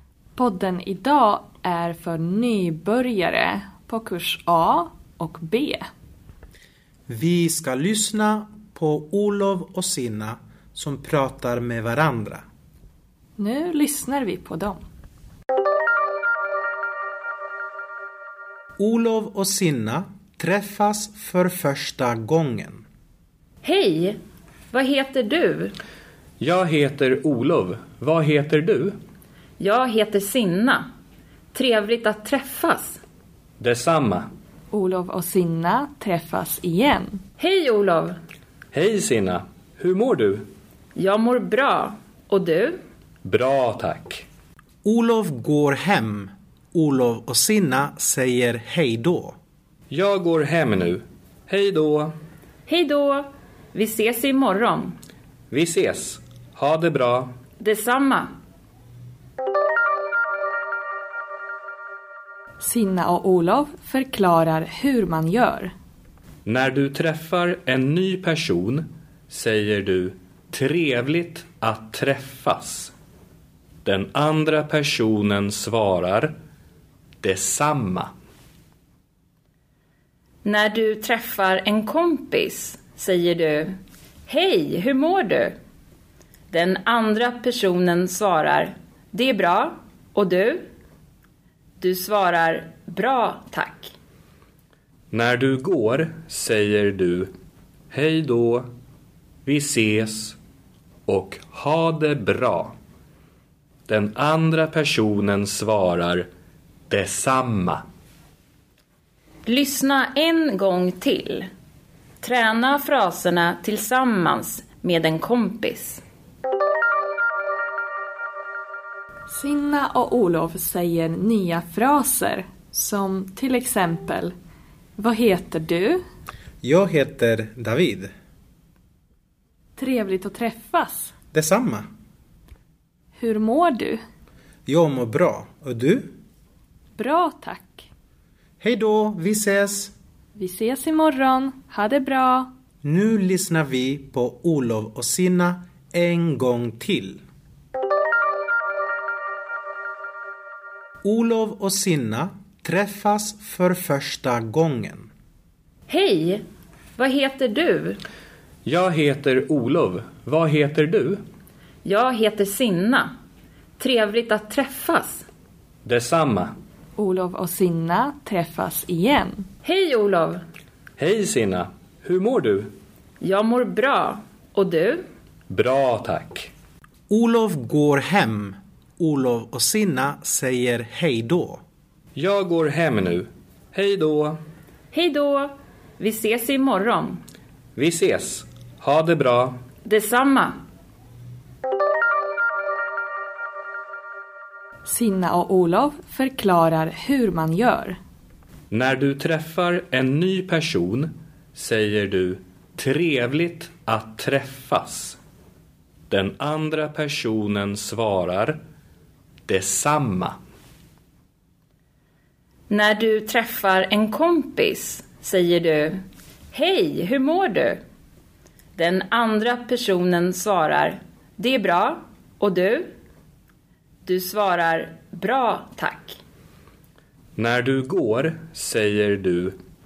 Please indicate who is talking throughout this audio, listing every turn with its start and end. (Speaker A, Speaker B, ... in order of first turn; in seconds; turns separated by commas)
Speaker A: 0.3-5.9, Speaker B: 7.1-12.4, Speaker A: 13.4-14.8, Speaker B: 18.8-22.8, Speaker C: 23.6-24.2, Speaker C: 24.7-25.7, Speaker D: 26.4-29.0, Speaker C: 29.6-30.8, Speaker C: 31.5-33.0, Speaker D: 33.6-34.3, Speaker A: 34.7-37.2, Speaker C: 37.4-38.1, Speaker D: 38.7-40.5, Speaker C: 41.0-42.8, Speaker D: 43.2-44.2, Speaker B: 44.8-49.4, Speaker D: 49.9-52.1, Speaker C: 52.7-55.0, Speaker D: 55.5-57.3, Speaker C: 57.6-58.3, Speaker A: 62.6-65.7, Speaker D: 66.4-72.9, Speaker D: 73.8-76.3, Speaker D: 77.2-78.1, Speaker C: 80.4-83.7, Speaker C: 84.3-85.5, Speaker C: 86.5-90.6, Speaker C: 91.8-93.9, Speaker D: 95.1-97.3, Speaker D: 97.9-98.7, Speaker D: 99.4-100.4, Speaker D: 101.1-102.7, Speaker D: 103.9-106.3, Speaker D: 106.9-107.8, Speaker C: 109.5-111.5, Speaker C: 112.2-116.0, Speaker A: 119.3-124.3, Speaker A: 125.0-126.0, Speaker B: 126.6-128.1, Speaker A: 129.8-131.1, Speaker B: 131.3-131.9, Speaker A: 133.1-134.0, Speaker B: 134.7-136.2, Speaker A: 136.9-137.9, Speaker B: 138.6-139.9, Speaker A: 140.3-142.5, Speaker B: 142.8-147.2, Speaker B: 151.0-155.1, Speaker C: 155.9-156.4, Speaker C: 157.0-158.0, Speaker D: 158.6-161.2, Speaker C: 161.8-163.1, Speaker C: 163.8-165.2, Speaker D: 165.8-166.5, Speaker A: 167.0-169.4, Speaker C: 169.6-170.4, Speaker D: 171.0-172.7, Speaker C: 173.2-175.0, Speaker D: 175.5-176.5, Speaker B: 177.1-181.6, Speaker D: 182.2-184.4, Speaker C: 184.9-187.2, Speaker D: 187.8-189.6, Speaker C: 189.8-190.6, Speaker A: 194.8-198.0, Speaker D: 198.7-205.2, Speaker D: 206.1-208.6, Speaker D: 209.5-210.4, Speaker C: 212.7-216.0, Speaker C: 216.5-217.8, Speaker C: 218.8-222.9, Speaker C: 224.0-226.1, Speaker D: 227.3-229.6